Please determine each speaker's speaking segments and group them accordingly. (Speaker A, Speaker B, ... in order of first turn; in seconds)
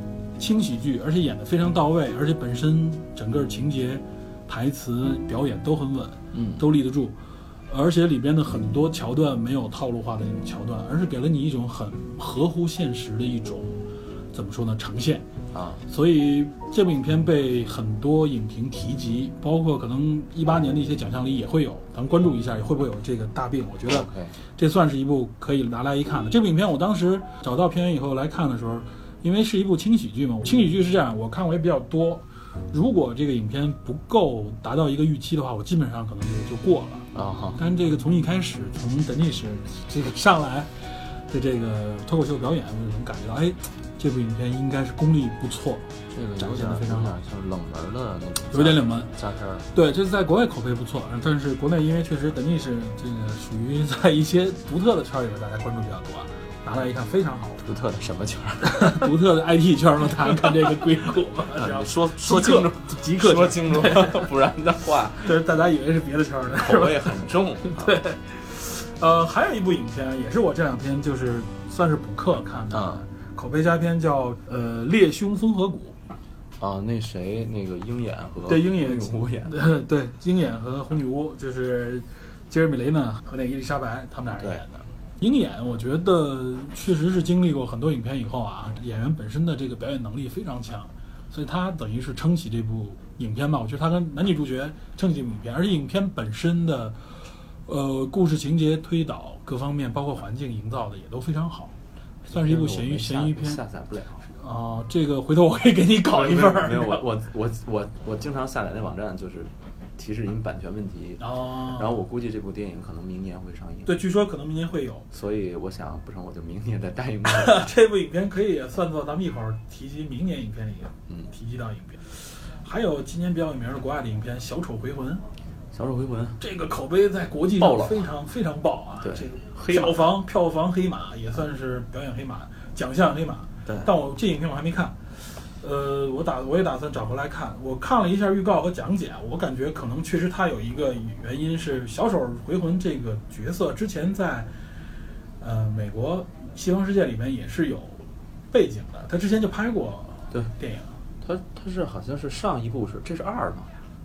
Speaker A: 0.4-7.2, 7.7-13.8, 14.3-15.2, 15.9-40.7, 41.3-47.1, 48.5-49.1, 49.7-57.6, 58.6-64.3, 65.2-76.0, 78.5-97.1, 97.7-101.7, 102.2-103.6, 104.3-107.0, 111.2-112.0, 113.8-115.1, 117.3-125.2, 126.4-144.5, 145.4-151.0
Speaker B: 6.3-6.6, 15.5-15.8, 23.9-24.4, 37.1-37.6, 46.1-49.7, 57.6-59.1, 61.5-65.4, 66.5-68.0, 72.7-73.0, 76.6-79.6, 102.3-104.3, 106.1-114.0, 115.1-117.7, 125.7-126.4, 127.6-128.1, 129.0-130.1, 133.6-133.9, 151.2-153.7